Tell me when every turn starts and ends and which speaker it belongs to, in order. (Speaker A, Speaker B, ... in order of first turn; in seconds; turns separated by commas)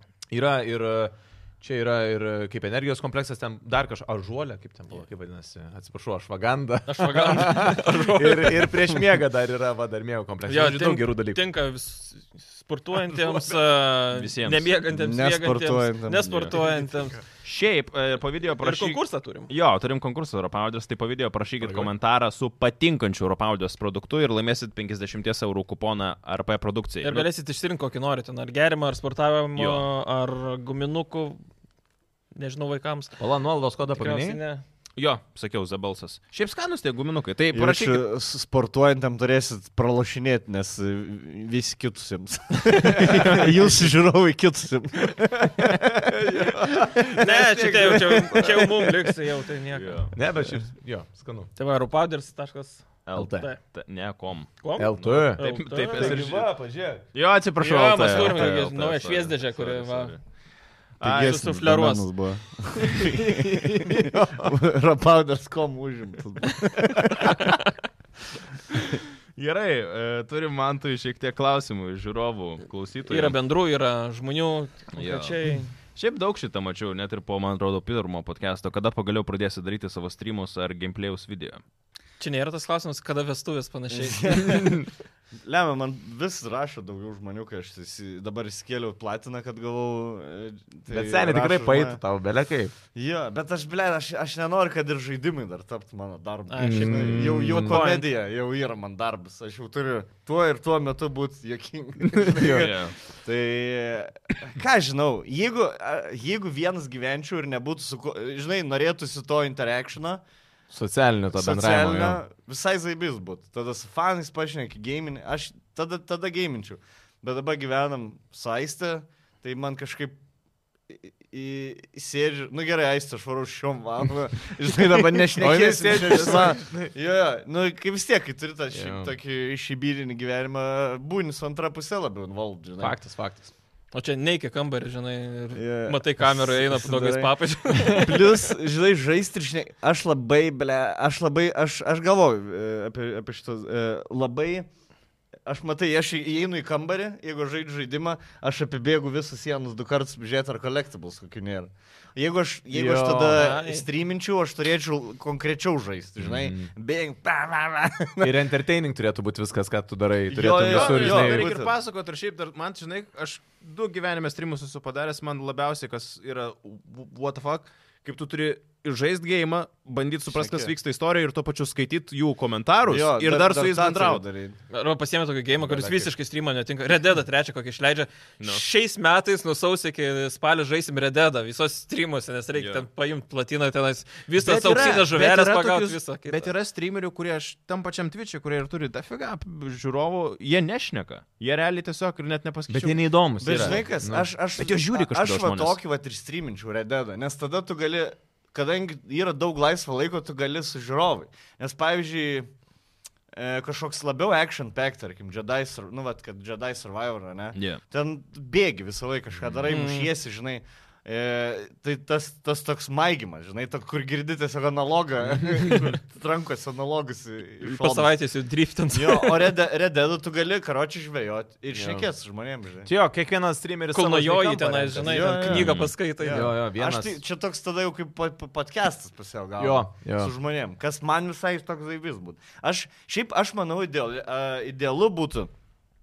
Speaker A: 0.3-11.4, Speaker B: 6.9-8.9, Speaker B: 10.4-17.2, Speaker C: 14.1-14.7, Speaker D: 14.9-16.5, Speaker C: 16.2-16.5, Speaker A: 16.6-17.1, Speaker C: 17.4-27.3, Speaker B: 18.6-19.5, Speaker A: 21.6-21.9, Speaker B: 27.0-31.4, Speaker C: 29.6-29.9, Speaker B: 32.3-33.2, Speaker A: 33.2-34.4, Speaker B: 33.9-34.6, Speaker C: 35.0-38.0, Speaker D: 37.5-47.0, Speaker A: 42.9-43.5, Speaker A: 45.5-49.1, Speaker B: 47.2-50.0, Speaker C: 49.7-50.1, Speaker A: 50.1-51.5, Speaker B: 51.5-53.6, Speaker C: 53.0-56.5, Speaker A: 53.1-53.5, Speaker B: 54.6-56.3, Speaker A: 54.8-57.0, Speaker C: 57.1-60.2, Speaker B: 57.6-60.1, Speaker C: 61.0-61.4, Speaker D: 61.0-67.5, Speaker B: 61.1-62.1, Speaker A: 62.9-64.6, Speaker B: 67.2-67.7, Speaker C: 69.3-73.4, Speaker B: 73.1-75.7, Speaker C: 74.9-75.4, Speaker C: 75.9-81.6, Speaker B: 82.2-84.6, Speaker D: 83.9-84.8, Speaker A: 84.5-84.8, Speaker D: 85.4-92.0, Speaker A: 90.9-92.7, Speaker D: 92.9-110.2, Speaker B: 96.5-98.0, Speaker A: 96.6-97.8, Speaker A: 102.1-102.7, Speaker C: 102.4-103.0, Speaker A: 110.7-112.2, Speaker D: 111.3-120.2, Speaker D: 120.9-132.9, Speaker A: 125.3-126.9, Speaker A: 128.7-129.1, Speaker A: 132.8-133.5, Speaker B: 133.9-138.4, Speaker D: 135.5-144.7, Speaker D: 145.4-158.3, Speaker A: 152.7-153.4, Speaker B: 153.3-153.8, Speaker A: 156.2-156.7, Speaker A: 158.2-161.5, Speaker D: 160.3-161.7, Speaker C: 160.6-174.2, Speaker D: 170.3-170.7, Speaker D: 172.9-174.6, Speaker B: 174.7-186.5, Speaker A: 175.7-176.0, Speaker C: 182.6-182.8, Speaker C: 184.4-193.9, Speaker A: 192.7-194.3, Speaker D: 193.4-202.5, Speaker C: 194.6-195.8, Speaker D: 203.3-218.1, Speaker C: 207.5-207.8, Speaker B: 209.7-210.1, Speaker B: 217.6-219.5, Speaker D: 218.9-222.9, Speaker A: 221.7-222.1, Speaker A: 222.8-225.5, Speaker B: 223.9-226.5, Speaker D: 224.9-235.5, Speaker C: 225.5-225.9, Speaker A: 226.2-227.2, Speaker A: 229.6-230.3